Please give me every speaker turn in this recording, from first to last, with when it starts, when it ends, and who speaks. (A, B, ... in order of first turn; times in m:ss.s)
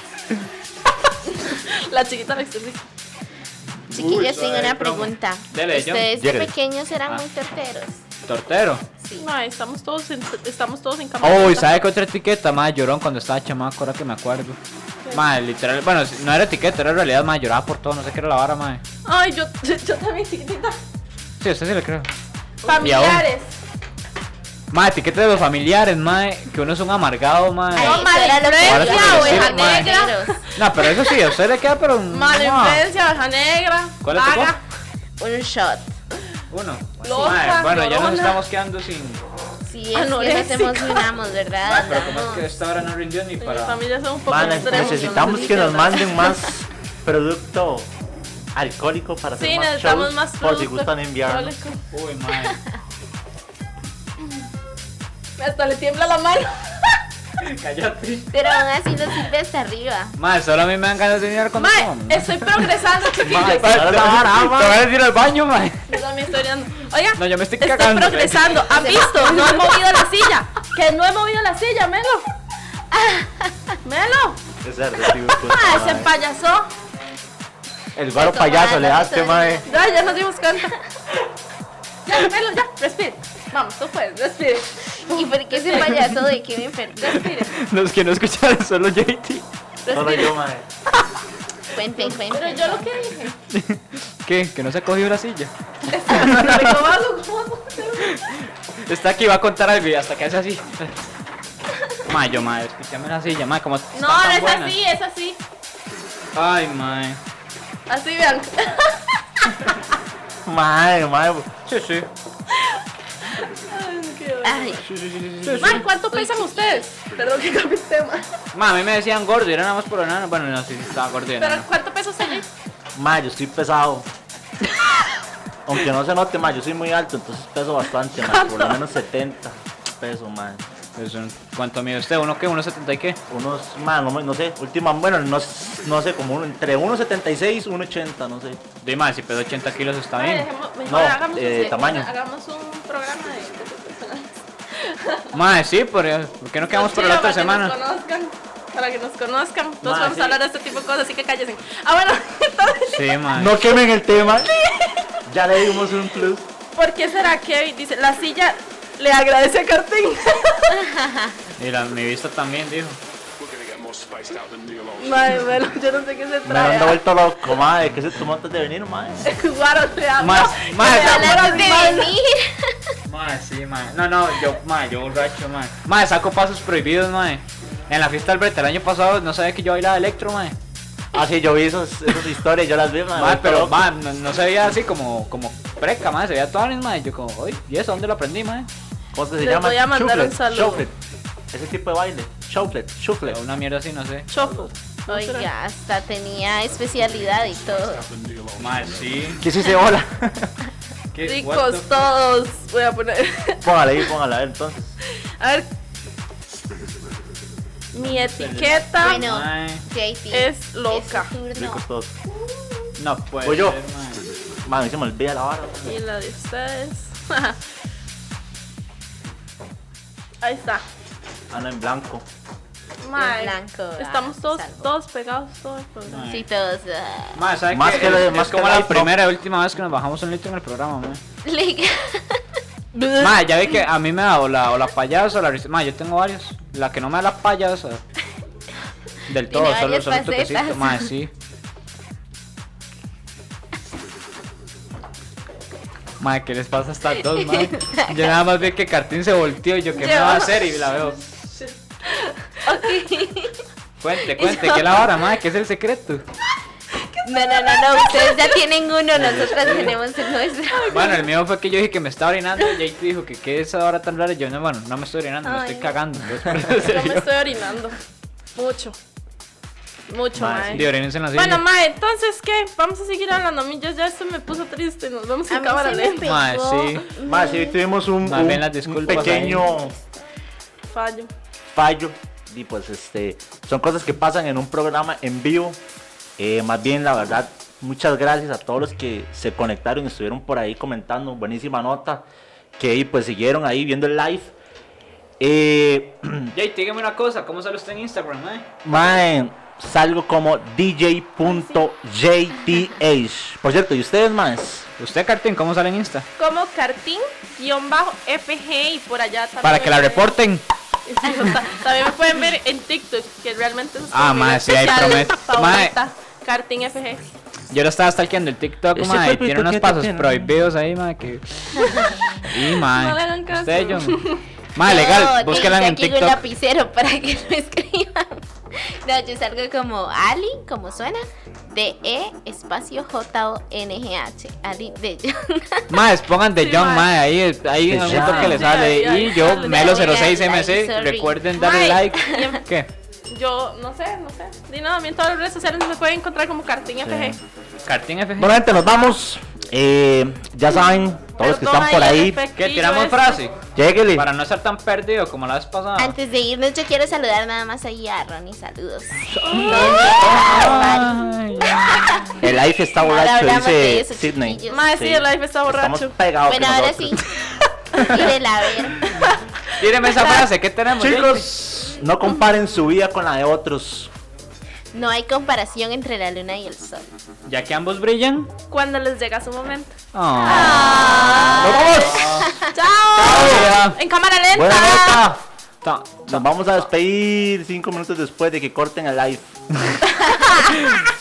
0:01.2-0:02.8 A
0:03.9-0:08.0 B
0:03.9-0:06.1 C
0:06.2-0:06.5 D
0:08.2-0:08.8 C
0:09.0-0:09.2 B
0:09.2-0:11.7 A
0:11.2-0:14.6 C
0:15.0-0:15.3 A
0:15.1-0:18.8 C
0:19.0-0:20.8 A
0:21.4-0:22.1 C
0:22.6-0:23.6 A
0:22.7-0:23.0 B
0:22.7-0:23.3 C
0:24.7-0:32.8 C
0:27.7-0:30.4 B
0:27.7-0:31.2 A
0:32.1-0:34.6 A
0:34.0-0:34.5 C
0:35.2-0:35.9 B
0:36.5-0:39.2 C
0:37.0-0:38.4 A
0:39.6-0:42.4 B
0:39.9-0:41.0 A
0:41.6-0:43.8 C
0:43.4-0:46.2 A
0:44.3-0:47.9 D
0:44.4-0:46.0 B
0:48.5-0:51.6 D
0:49.4-0:51.8 A
0:51.9-0:52.6 C
0:55.4-0:57.0 A
0:57.4-0:58.3 C
0:58.3-1:00.1 B
1:00.2-1:06.0 C
1:01.6-1:04.1 A
1:03.2-1:04.8 D
1:05.9-1:12.2 A
1:07.2-1:08.6 C
1:08.7-1:09.8 B
1:12.9-1:13.7 B
1:13.8-1:14.4 A
1:14.6-1:16.1 D
1:15.1-1:16.7 A
1:18.0-1:19.6 D
1:18.1-1:19.9 B
1:19.6-1:20.7 A
1:22.0-1:26.2 A
1:25.0-1:27.2 B
1:27.0-1:27.5 A
1:27.2-1:29.4 C
1:29.8-1:30.4 A
1:29.9-1:30.6 D
1:31.7-1:32.9 B
1:32.0-1:33.4 A
1:33.5-1:35.5 C
1:35.9-1:38.1 A
1:36.1-1:36.7 D
1:38.0-1:40.9 C
1:42.1-1:44.8 C
1:43.9-1:45.4 A
1:46.0-1:46.3 E
1:46.3-1:47.2 C
1:47.9-1:49.7 A
1:50.4-1:51.5 D
1:51.7-1:52.1 C
1:52.5-1:52.8 A
1:53.4-1:54.8 A
1:53.4-1:54.1 E
1:54.4-1:54.8 B
1:54.9-1:55.8 D
1:55.4-1:55.9 C
1:55.6-1:58.3 A
1:56.1-1:56.8 B
1:58.5-2:01.7 C
2:01.4-2:02.4 A
2:02.9-2:04.1 D
2:05.6-2:10.6 D
2:08.2-2:08.8 A
2:11.0-2:13.2 C
2:13.3-2:18.6 D
2:18.8-2:20.5 C
2:20.2-2:25.3 A
2:20.8-2:22.1 D
2:25.3-2:27.7 C
2:26.7-2:33.0 A
2:29.8-2:30.4 D
2:32.8-2:33.6 C
2:33.3-2:34.5 D
2:34.4-2:35.1 A
2:35.2-2:36.5 D
2:36.7-2:40.8 A
2:40.8-2:41.4 B
2:41.6-2:43.0 C
2:43.4-2:45.7 E
2:45.0-2:47.0 A
2:46.4-2:49.3 D
2:49.2-2:52.1 A
2:50.2-2:52.0 C
2:50.8-2:52.9 B
2:53.0-3:00.5 C
3:01.1-3:03.8 D
3:03.2-3:08.7 C
3:09.1-3:10.9 D
3:09.4-3:10.8 A
3:11.5-3:13.4 D
3:13.2-3:14.3 C
3:14.3-3:15.5 A
3:15.1-3:18.1 B
3:16.8-3:19.5 E
3:18.6-3:19.4 C
3:19.4-3:20.5 D
3:21.1-3:21.9 C
3:21.2-3:24.1 A
3:23.6-3:25.0 D
3:25.3-3:25.7 A
3:27.9-3:29.2 A
3:28.0-3:29.8 C
3:29.0-3:31.8 B
3:30.3-3:31.3 A
3:31.5-3:32.1 D
3:33.0-3:34.2 C
3:33.4-3:33.8 D
3:34.1-3:34.6 E
3:34.6-3:36.0 D
3:35.8-3:37.6 A
3:40.4-3:40.8 A
3:41.5-3:42.2 D
3:43.0-3:46.4 A
3:43.2-3:44.9 B
3:46.1-3:46.4 C
3:46.3-3:47.4 B
3:47.3-3:51.2 C
3:47.7-3:49.2 D
3:51.4-3:52.4 B
3:52.9-3:53.3 A
3:53.2-3:58.0 C
3:59.3-4:01.3 C
3:59.5-4:01.1 B
4:06.2-4:11.3 C
4:07.3-4:08.3 B
4:09.9-4:13.0 A
4:12.6-4:13.6 B
4:14.0-4:16.2 C
4:14.4-4:15.0 B
4:14.4-4:14.8 A
4:17.0-4:18.6 A
4:17.2-4:21.0 B
4:19.2-4:19.6 D
4:19.2-4:20.0 C
4:20.6-4:21.3 A
4:20.9-4:27.3 C
4:25.4-4:25.9 A
4:26.8-4:28.0 A
4:28.5-4:29.0 A
4:30.1-4:36.2 A
4:30.3-4:30.9 D
4:30.7-4:31.6 C
4:35.5-4:37.8 B
4:36.2-4:37.0 C
4:37.2-4:39.9 D
4:38.2-4:39.7 C
4:40.9-4:41.3 A
4:41.7-4:45.8 D
4:46.4-4:52.2 D
4:52.8-4:54.5 D
4:55.4-4:56.5 D
4:56.5-4:58.6 C
4:58.8-5:04.9 D
5:01.4-5:01.8 A
5:05.0-5:06.3 C
5:06.4-5:10.3 A
5:09.6-5:10.6 C
5:11.0-5:17.2 A
5:14.1-5:15.9 C
5:17.7-5:21.8 C
5:18.9-5:20.3 D
5:22.4-5:24.2 C
5:22.8-5:24.4 A
5:24.7-5:26.4 C
5:24.8-5:35.9 B
5:35.9-5:42.9 C
5:36.6-5:37.1 A
5:37.9-5:38.8 D
5:38.0-5:40.4 A
5:39.5-5:42.6 B
5:41.6-5:42.6 A
5:43.3-5:47.4 A
5:47.0-5:47.4 D
5:47.8-5:48.6 C
5:48.4-5:52.4 D
5:48.8-5:49.1 A
5:51.4-5:53.4 A
5:52.5-5:53.6 C
5:53.7-5:54.3 D
5:54.1-5:56.1 C
5:56.0-6:02.2 B
5:59.3-6:01.0 D
5:59.5-6:00.4 A
5:59.6-6:02.4 C
6:02.4-6:07.2 D
6:03.0-6:04.9 B
6:04.7-6:06.1 A
6:06.5-6:07.2 B
6:08.0-6:08.2 D
6:08.0-6:09.1 B
6:09.0-6:09.3 A
6:09.8-6:11.5 C
6:11.0-6:14.1 D
6:14.9-6:17.1 B
6:17.4-6:18.5 C
6:18.7-6:25.2 A
6:20.1-6:21.1 C
6:20.5-6:22.6 B
6:21.0-6:22.5 D
6:21.6-6:22.6 C
6:23.1-6:23.7 D
6:23.2-6:24.0 C
6:24.5-6:25.4 D
6:25.8-6:26.8 C
6:26.3-6:29.6 D
6:30.0-6:31.0 A